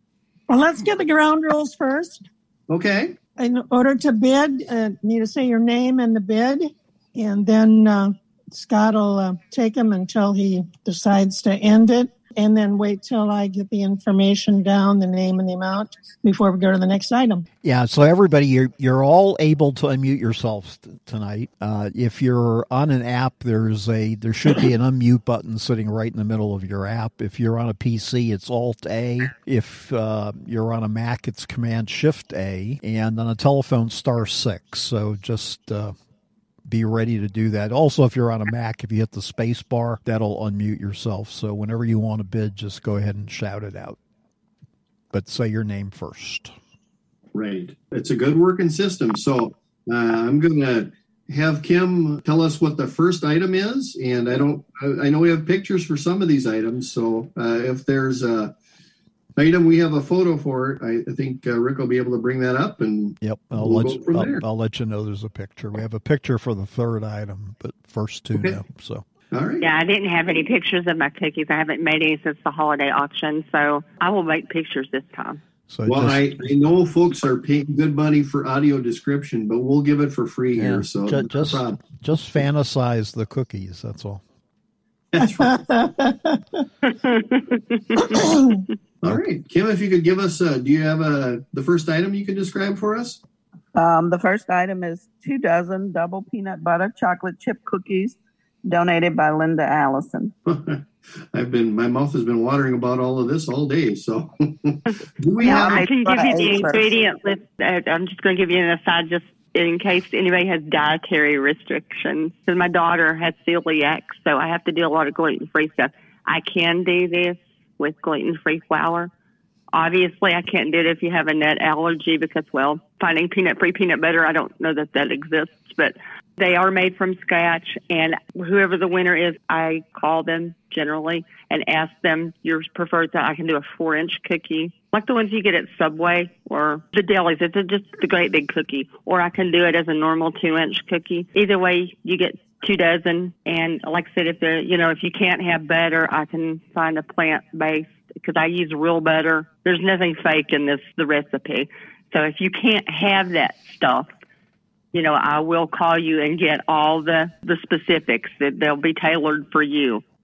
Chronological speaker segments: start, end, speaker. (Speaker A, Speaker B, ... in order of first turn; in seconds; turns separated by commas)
Speaker A: 0.5-2.2, Speaker B: 2.7-3.2, Speaker A: 3.4-17.4, Speaker C: 17.6-35.9, Speaker C: 36.7-44.0, Speaker C: 45.1-46.5, Speaker B: 47.3-58.5, Speaker B: 59.4-64.4, Speaker C: 63.2-69.0, Speaker B: 68.3-68.6, Speaker B: 69.3-69.7, Speaker D: 69.6-75.4, Speaker C: 75.7-76.5, Speaker B: 75.8-81.8, Speaker C: 80.6-84.2, Speaker B: 85.1-85.6, Speaker A: 85.2-86.4, Speaker D: 87.0-88.1, Speaker A: 88.1-88.6, Speaker B: 89.0-93.2, Speaker E: 93.7-100.3, Speaker B: 100.5-105.8, Speaker E: 105.4-106.8, Speaker D: 105.4-119.1, Speaker D: 119.7-154.1, Speaker D: 154.9-160.0